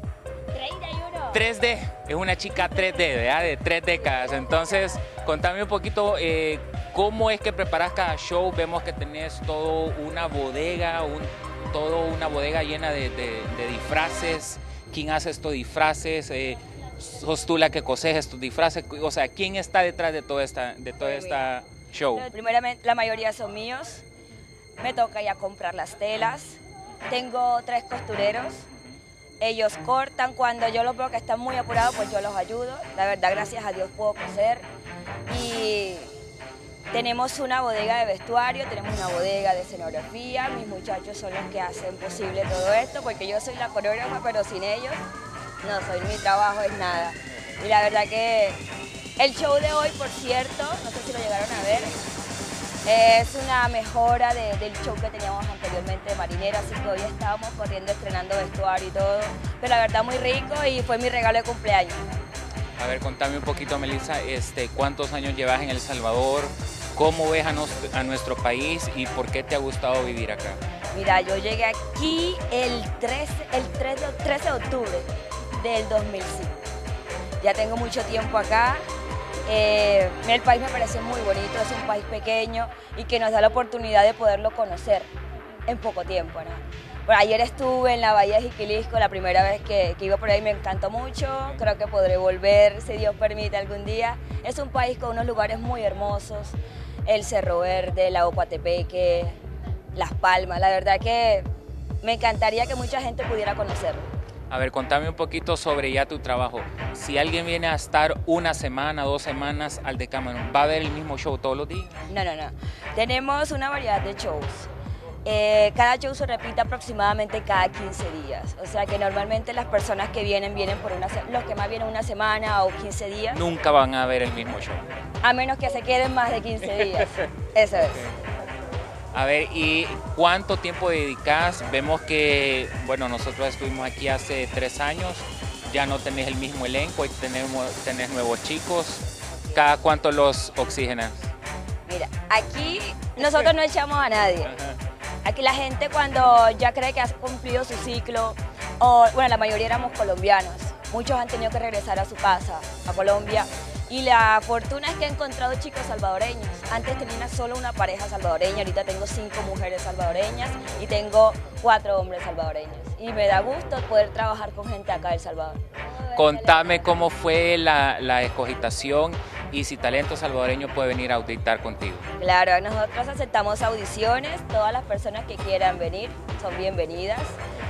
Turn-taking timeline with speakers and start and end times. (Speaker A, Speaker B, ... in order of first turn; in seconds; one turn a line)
Speaker A: 0.5-1.4
Speaker B: 1.3-22.3
Speaker A: 21.0-21.5
Speaker A: 22.1-24.1
Speaker A: 24.8-28.7
Speaker A: 29.4-34.6
Speaker A: 35.3-36.1
Speaker A: 36.9-45.0
Speaker A: 45.6-48.6
Speaker A: 49.2-51.9
Speaker B: 51.5-52.0
Speaker A: 52.9-62.2
Speaker B: 62.8-70.6
Speaker A: 70.9-76.6
Speaker A: 77.4-78.8
Speaker A: 79.5-85.1
Speaker A: 85.7-99.3
Speaker A: 100.0-101.5
Speaker A: 102.0-104.1
Speaker B: 104.5-112.0
Speaker A: 112.1-114.7
Speaker A: 115.2-123.4
Speaker B: 123.3-124.8
Speaker A: 125.2-128.1
Speaker B: 129.1-141.3
Speaker A: 139.3-139.7
Speaker A: 141.9-144.5
Speaker B: 144.5-144.8
Speaker A: 145.2-166.9
Speaker B: 166.2-172.1
Speaker A: 172.2-177.4